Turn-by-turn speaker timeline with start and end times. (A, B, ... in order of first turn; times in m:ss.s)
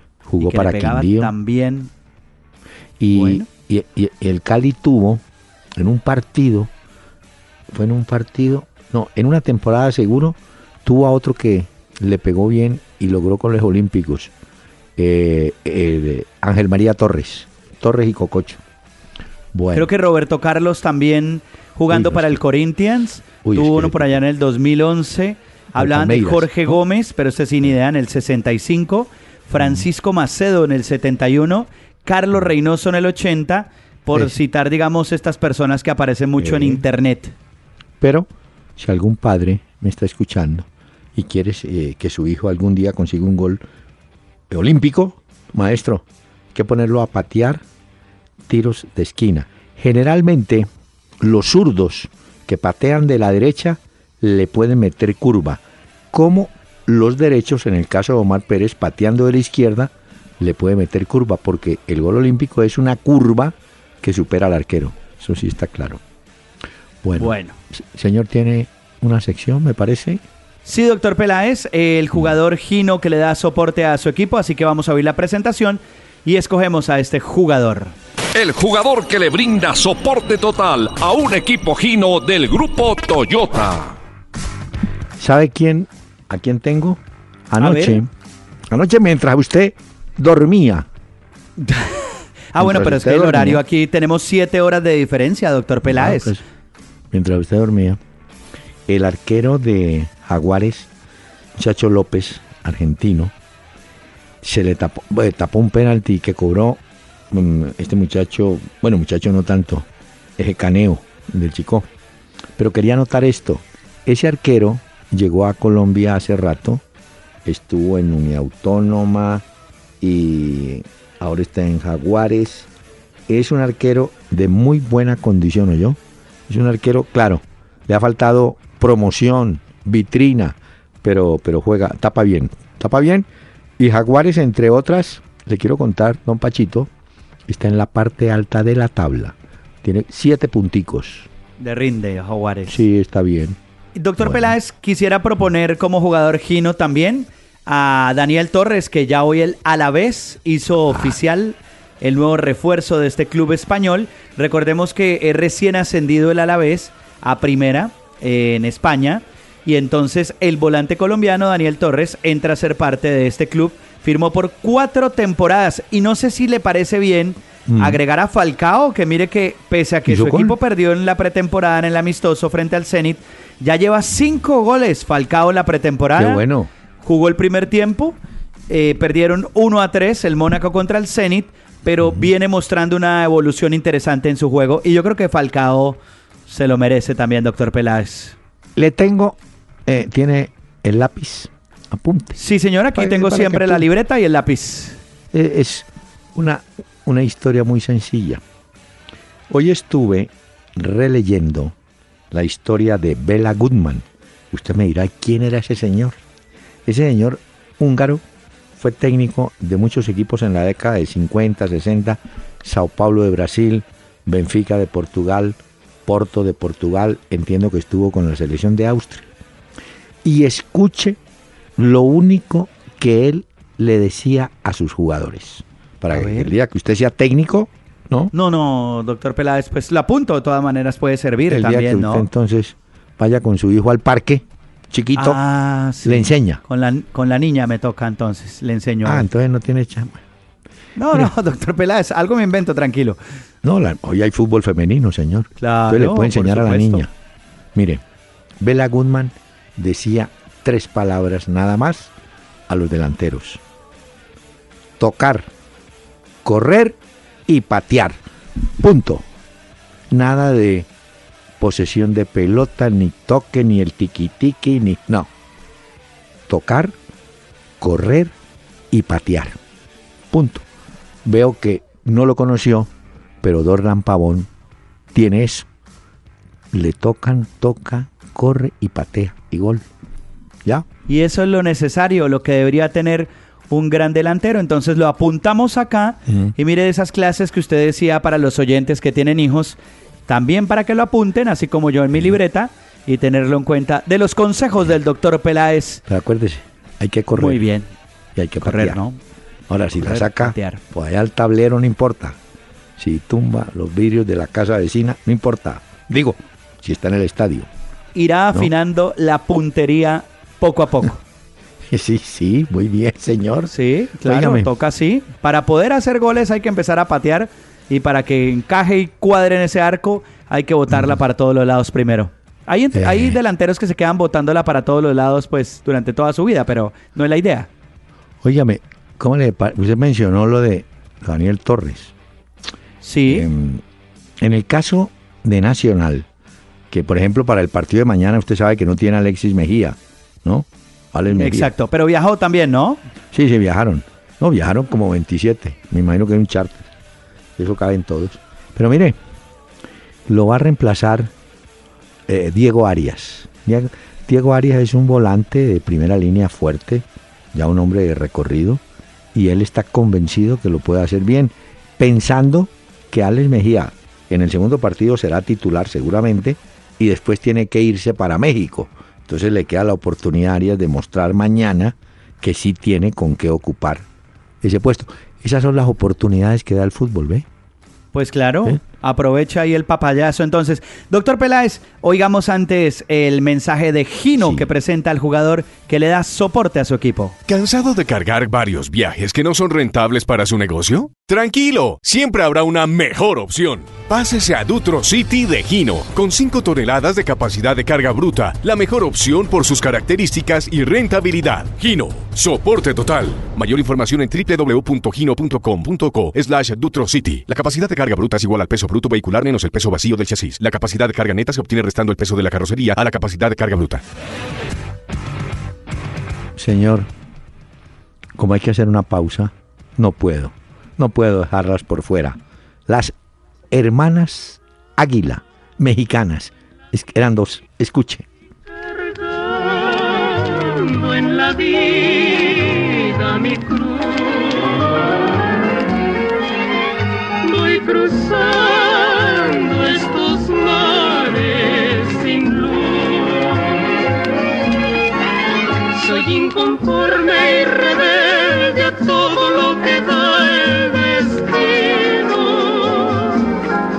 0:00.2-0:01.3 A
0:00.4-0:01.9 B
0:03.0-0:05.2 A
0:03.1-0:03.5 B
0:05.8-0:06.7 A
0:07.7-0:14.3 A
0:15.0-0:18.6 A
0:19.5-0:19.9 A
0:19.7-0:37.3 B
0:21.9-0:22.4 A
0:23.4-0:24.2 A
0:25.7-0:26.8 A
0:29.6-0:29.8 A
0:36.4-0:36.8 A
0:38.0-0:43.6 A
0:44.5-0:47.6 A
0:48.5-1:06.0 A
1:07.0-1:10.2 A
1:07.2-1:07.6 B
1:10.6-1:17.9 B
1:18.3-1:24.0 C
1:25.2-1:28.1 A
1:27.6-1:28.0 B
1:28.7-1:30.9 A
1:31.6-1:32.0 B
1:32.5-1:36.4 B
1:32.6-1:33.6 A
1:35.8-1:36.4 A
1:37.1-1:38.0 A
1:38.9-1:40.9 A
1:41.5-1:43.3 A
1:44.4-1:49.9 A
1:50.4-1:51.9 A
1:52.6-1:56.8 A
1:57.4-1:59.4 A
2:00.0-2:02.7 A
2:03.3-2:13.3 A
2:13.8-2:16.9 A
2:17.5-2:21.3 A
2:21.6-2:22.8 B
2:22.7-2:23.6 A
2:24.0-2:56.4 B
2:24.2-2:24.5 A
2:30.9-2:31.2 A
2:47.7-2:48.0 A
2:50.1-2:50.6 A
2:56.1-2:56.7 A
2:57.0-2:58.2 B
2:58.7-3:08.4 B
3:08.8-3:12.4 A
3:12.4-3:15.0 B
3:12.9-3:13.9 A
3:15.3-3:18.4 A
3:19.5-3:21.8 A
3:22.3-3:26.2 A
3:26.9-3:28.2 A
3:28.8-3:39.3 A
3:40.2-3:41.2 A
3:41.8-3:48.3 A
3:46.1-3:46.5 B
3:48.3-3:52.3 B
3:51.5-3:55.4 A
3:55.2-3:59.3 B
3:56.0-3:56.6 A
3:59.0-4:00.2 A
4:01.0-4:03.2 B
4:03.6-4:07.1 A
4:05.6-4:07.1 B
4:07.7-4:08.0 A
4:08.6-4:12.1 A
4:12.7-4:13.6 A
4:15.0-4:15.5 A
4:16.4-4:18.2 A
4:18.8-4:19.2 A
4:20.1-4:20.9 A
4:21.6-4:25.3 A
4:26.5-4:26.9 A
4:27.8-4:28.3 A
4:28.9-4:29.6 A
4:30.3-4:30.6 A
4:31.2-4:32.9 A
4:33.4-4:34.5 A
4:35.1-4:35.6 A
4:36.7-4:39.9 A
4:41.1-4:49.8 B
4:46.3-4:46.5 A
4:50.3-4:56.0 B
4:56.1-4:57.7 A
4:57.4-4:57.9 B
4:58.4-4:59.0 A
4:58.6-4:59.2 B
4:59.7-5:02.4 A
4:59.9-5:00.8 B
5:03.0-5:07.7 A
5:08.1-5:11.2 B
5:11.9-5:14.7 A
5:13.7-5:27.7 B
5:22.9-5:23.4 A
5:28.4-5:32.1 A
5:33.0-5:33.5 B
5:33.3-5:33.8 A
5:34.4-5:36.3 A
5:36.9-5:41.7 A
5:41.3-5:43.0 B
5:43.3-5:46.9 A
5:47.6-5:49.2 A
5:50.3-5:51.3 A
5:52.3-5:58.8 A
5:59.3-6:14.1 A
6:14.6-6:17.4 A
6:18.1-6:27.4 B
6:24.4-6:24.7 A
6:27.5-6:54.0 D
6:56.6-6:57.1 A
6:58.4-7:03.1 A
7:03.7-7:08.3 A
7:09.0-7:15.3 E
7:17.4-7:23.6 E
7:25.9-7:33.4 E